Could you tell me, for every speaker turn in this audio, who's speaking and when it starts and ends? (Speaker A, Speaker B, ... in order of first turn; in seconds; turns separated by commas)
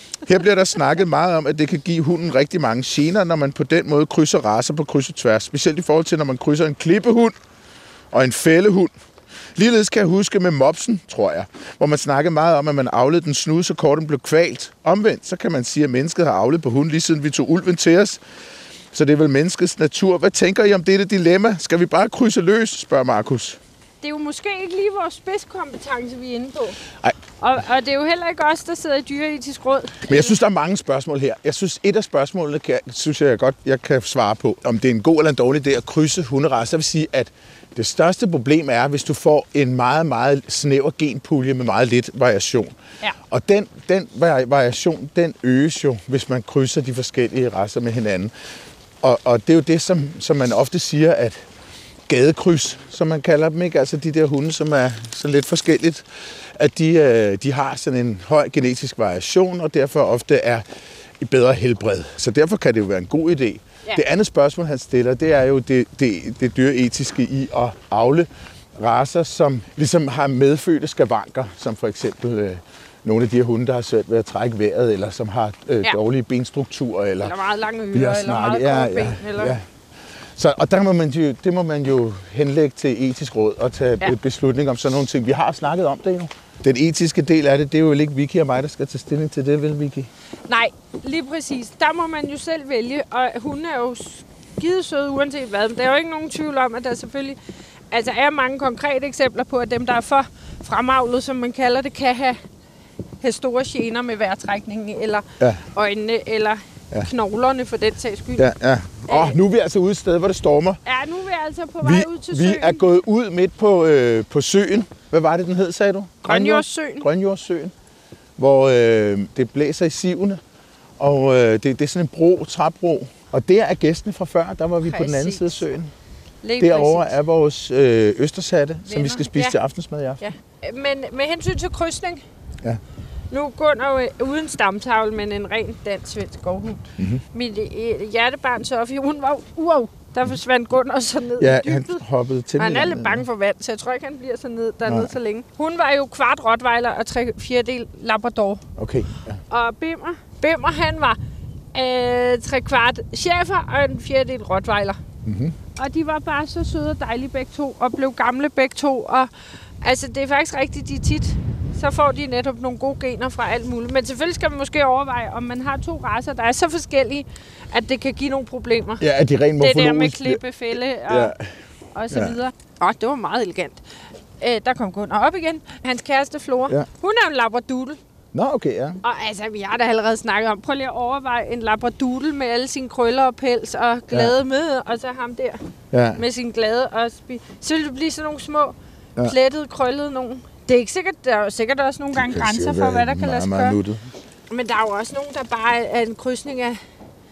Speaker A: 0.2-7.3, Speaker A: 8.1-8.9, Speaker A: 9.6-18.2, Speaker A: 18.9-23.6, Speaker B: 24.0-26.8, Speaker B: 27.4-30.4, Speaker A: 30.1-42.8, Speaker A: 43.3-48.3, Speaker A: 49.0-51.4, Speaker A: 52.1-60.6, Speaker A: 61.2-77.3, Speaker B: 77.2-79.5, Speaker A: 77.9-79.6, Speaker A: 80.3-90.1, Speaker B: 90.5-97.4, Speaker B: 97.9-102.4, Speaker B: 103.2-108.5, Speaker A: 108.4-110.8, Speaker B: 109.1-109.4, Speaker B: 110.8-112.8, Speaker A: 111.8-117.7, Speaker B: 116.2-117.1, Speaker A: 118.4-120.4, Speaker A: 121.0-125.9, Speaker B: 124.8-125.6, Speaker B: 126.4-127.1, Speaker A: 126.6-130.2, Speaker B: 128.8-129.6, Speaker B: 130.2-132.2, Speaker B: 133.3-142.0, Speaker A: 141.4-143.2, Speaker B: 142.6-148.6, Speaker A: 144.8-145.1, Speaker A: 148.8-149.4, Speaker B: 149.5-151.2, Speaker B: 151.7-155.0, Speaker A: 155.2-155.6, Speaker B: 155.8-159.3, Speaker B: 159.8-169.0, Speaker A: 169.0-170.4, Speaker B: 169.6-171.3, Speaker A: 171.1-171.5, Speaker B: 171.9-173.8, Speaker A: 172.1-172.4, Speaker B: 174.4-178.0, Speaker A: 178.3-179.0, Speaker B: 179.0-185.6, Speaker A: 185.9-186.2, Speaker B: 186.2-193.8, Speaker A: 192.1-194.1, Speaker B: 194.5-196.8